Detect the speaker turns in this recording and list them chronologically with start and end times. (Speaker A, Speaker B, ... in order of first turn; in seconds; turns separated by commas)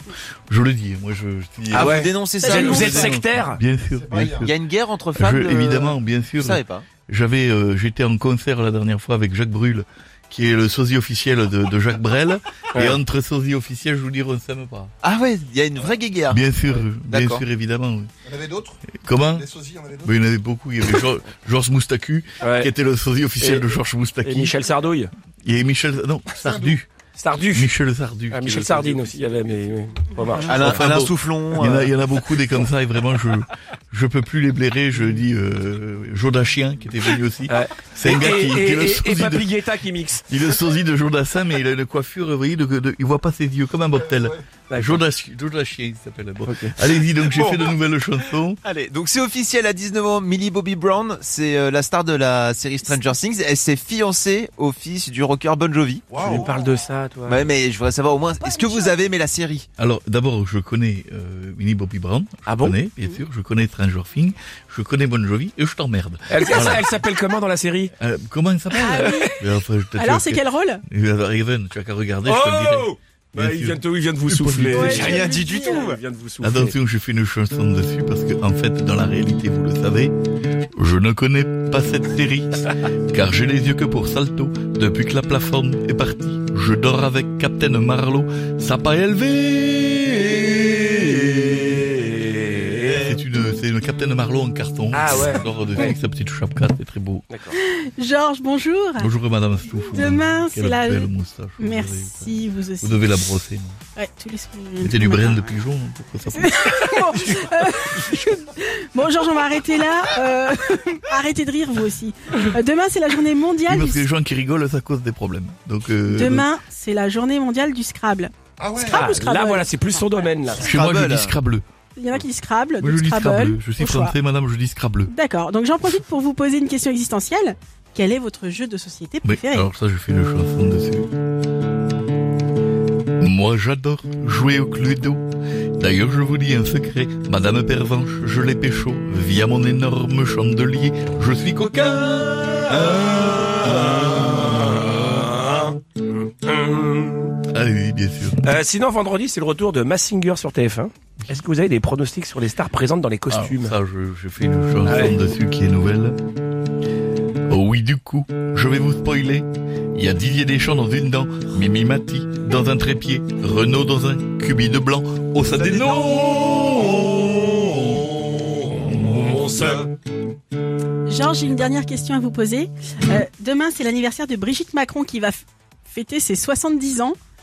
Speaker A: 0.5-4.6, Speaker B: 1.7-3.6, Speaker C: 1.7-3.2, Speaker D: 2.4-3.2, Speaker E: 4.0-4.5, Speaker C: 4.2-6.9, Speaker A: 5.2-14.9, Speaker B: 12.7-13.0, Speaker C: 15.0-16.4, Speaker A: 16.3-18.1, Speaker C: 17.1-17.5, Speaker E: 18.3-18.8, Speaker A: 18.9-19.5, Speaker E: 19.4-20.1, Speaker A: 20.0-24.6, Speaker B: 22.4-22.7, Speaker B: 23.4-25.1, Speaker A: 25.4-26.9, Speaker E: 26.4-26.8, Speaker B: 27.2-27.7, Speaker A: 27.5-29.6, Speaker B: 28.3-30.9, Speaker A: 30.4-39.5, Speaker C: 30.5-31.9, Speaker B: 37.5-40.3, Speaker A: 40.3-48.6, Speaker B: 44.7-45.0, Speaker B: 46.5-46.8, Speaker C: 48.6-56.1, Speaker E: 56.1-56.5, Speaker B: 56.2-57.5, Speaker C: 57.3-59.7, Speaker D: 58.4-58.9, Speaker A: 59.8-66.9, Speaker B: 62.5-62.8, Speaker B: 66.3-67.9, Speaker A: 68.0-75.2, Speaker B: 68.7-69.3, Speaker D: 68.8-69.4, Speaker D: 70.0-70.8, Speaker B: 72.2-76.8, Speaker D: 74.7-75.9, Speaker C: 74.8-76.0, Speaker A: 76.4-80.1, Speaker A: 80.8-91.7, Speaker B: 90.4-93.1, Speaker A: 92.9-97.2, Speaker B: 94.9-96.0, Speaker B: 97.3-97.6, Speaker D: 97.5-99.1, Speaker A: 99.0-103.8, Speaker D: 99.6-103.1, Speaker D: 104.0-105.6, Speaker A: 104.8-106.9, Speaker D: 106.3-114.1, Speaker A: 113.7-116.5, Speaker D: 116.1-120.2, Speaker E: 118.6-119.1, Speaker B: 118.9-120.7, Speaker C: 120.6-121.3, Speaker A: 120.6-121.6, Speaker D: 122.0-124.2, Speaker A: 122.8-125.1, Speaker D: 125.1-129.7, Speaker A: 129.2-131.1, Speaker A: 133.2-135.2, Speaker A: 135.8-145.1, Speaker B: 144.1-145.7, Speaker B: 146.3-147.3, Speaker A: 147.5-148.5, Speaker B: 148.4-153.7, Speaker A: 153.3-156.2, Speaker B: 154.9-155.2, Speaker A: 157.5-167.7, Speaker C: 165.5-166.5, Speaker D: 171.1-177.2